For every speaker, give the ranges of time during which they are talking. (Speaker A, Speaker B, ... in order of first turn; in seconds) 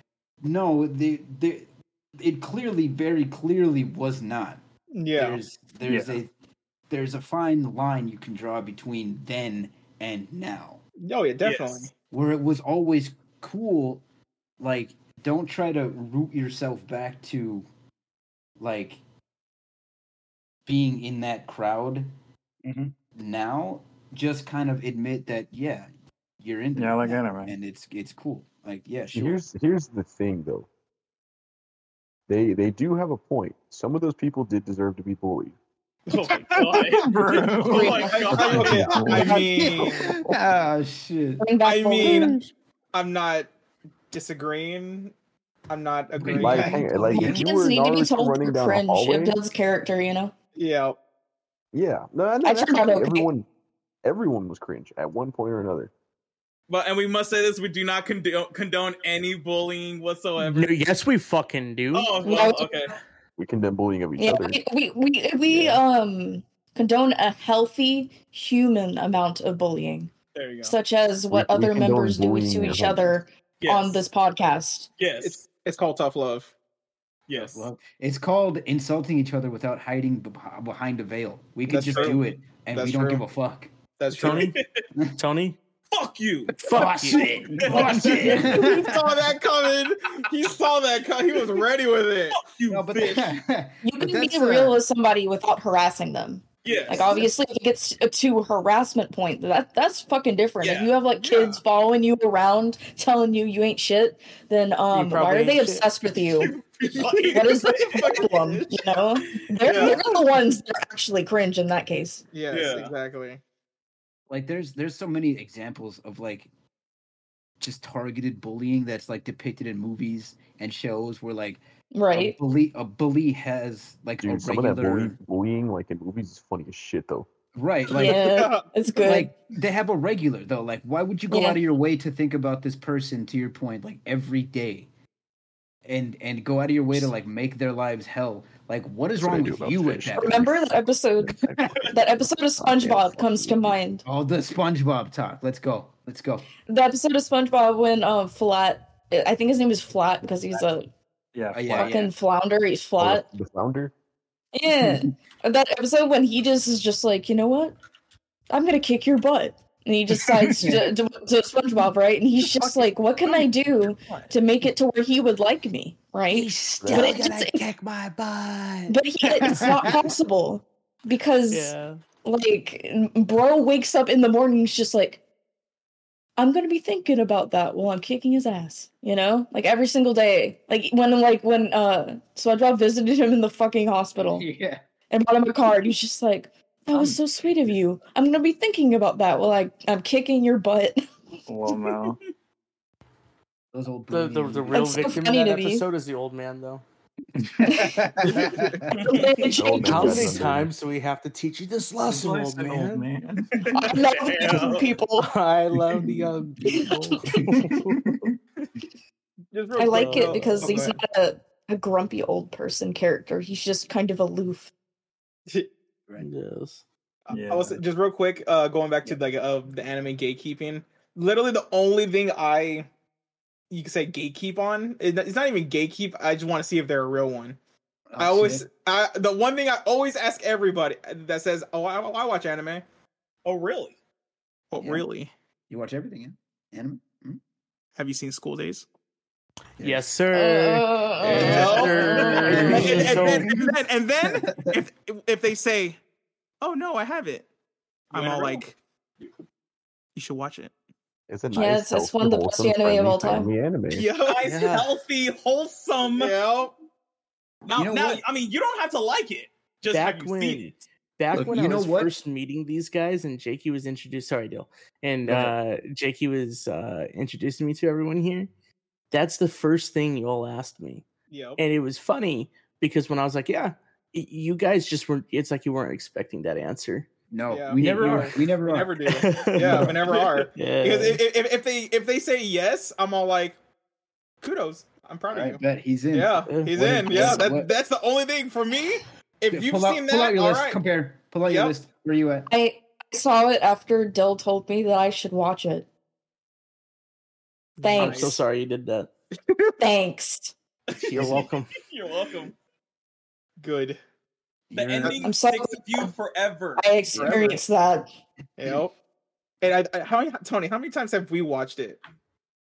Speaker A: 0.4-4.6, 5.1-6.3, 6.9-10.8, 12.1-14.0, 14.6-17.7, 18.6-19.0, 20.6-22.1, 23.0-29.4, 38.9-41.5, 46.2-47.5, 77.3-83.7, 86.7-89.0, 92.7-94.8, 114.3-116.5, 117.6-121.6, 122.1-125.2, 127.5-128.4, 129.0-134.9, 135.8-140.7, 144.0-146.5, 151.5-152.1, 160.5-160.9, 166.3-170.1, 184.2-184.8, 193.7-195.1, 197.5-199.1, 228.1-228.7, 234.8-235.1, 235.7-237.4, 239.8-240.1, 242.4-244.8, 257.7-258.2, 261.3-262.1, 265.2-265.5, 277.3-278.9, 279.7-279.9, 285.3-287.7, 289.5-292.5, 304.7-305.2
Speaker B: 4.9-5.4, 11.0-11.9, 38.1-40.1, 41.6-42.4, 42.9-43.5, 44.1-45.1, 45.7-46.8, 50.5-51.0, 75.2-76.5, 81.7-82.2, 82.7-83.2, 84.0-84.5, 88.3-92.4, 107.9-108.7, 109.6-110.0, 112.3-113.4, 128.0-128.7, 198.2-198.8, 209.5-210.9, 217.3-222.9, 223.7-227.6, 228.2-232.8, 234.7-235.3, 238.0-238.8, 241.3-241.8, 242.5-246.0, 246.6-247.4, 248.1-248.8, 250.1-250.7, 253.9-254.4, 256.2-256.7, 271.3-271.6, 277.5-283.6, 284.4-285.6, 286.1-290.8, 291.4-291.7, 297.8-298.4, 299.5-299.8, 303.6-304.0, 307.1-307.6, 308.6-308.9, 309.6-312.0
Speaker C: 5.8-6.2, 26.8-27.6, 36.8-39.5, 151.3-151.9, 160.2-160.7, 163.8-164.3, 191.5-192.2, 197.4-197.7, 202.1-203.7, 217.3-217.8
Speaker D: 11.4-11.9, 36.1-39.7, 56.7-60.9, 61.9-62.9, 70.3-70.8, 73.6-74.0, 75.0-75.4, 77.3-77.7, 81.8-82.2, 84.2-84.8, 85.9-86.6, 87.6-88.5, 92.3-93.3, 96.6-97.3, 100.6-101.6, 106.4-108.5, 109.2-110.1, 112.5-112.9, 203.6-205.0, 209.7-210.8, 233.4-233.9, 241.4-242.7, 248.1-248.7, 254.2-256.3, 257.6-260.6, 301.2-302.5, 304.7-306.9
Speaker E: 29.1-30.7, 32.3-35.5, 38.5-39.2, 46.3-49.4, 51.7-53.5, 54.0-55.9, 63.4-64.6, 65.5-65.8, 71.3-73.1, 124.2-127.3, 139.2-140.5, 141.2-143.8, 153.0-153.9, 166.8-167.2, 199.5-200.7, 251.3-254.1
Speaker F: 37.7-39.5, 41.4-42.4, 46.6-50.3, 52.4-53.3, 62.2-62.8, 64.2-70.1, 70.6-74.9, 88.3-88.7, 93.8-106.6, 107.2-112.2, 121.9-122.4, 127.9-129.3, 131.3-131.6, 140.1-144.0, 146.7-150.9, 151.7-153.2, 154.5-157.8, 158.5-167.6, 168.9-175.2, 176.4-184.4, 185.1-191.0, 194.7-195.8, 197.6-198.3, 199.0-200.4, 203.7-205.3, 206.7-207.4, 209.8-214.7, 240.3-243.4, 251.5-253.5, 292.5-295.9, 297.8-298.4, 299.8-300.5, 305.1-306.1, 306.8-308.1
Speaker G: 60.4-62.1, 84.1-84.6, 85.2-85.6, 86.6-88.4, 104.9-105.9, 171.5-172.0, 194.1-196.8, 199.5-203.1, 205.2-208.0, 209.9-210.7, 216.2-216.8, 239.8-243.6, 254.4-254.9, 259.9-268.5, 269.1-271.1, 271.6-277.1, 277.7-278.4, 279.0-281.2, 286.4-287.5, 297.9-299.1, 301.0-301.7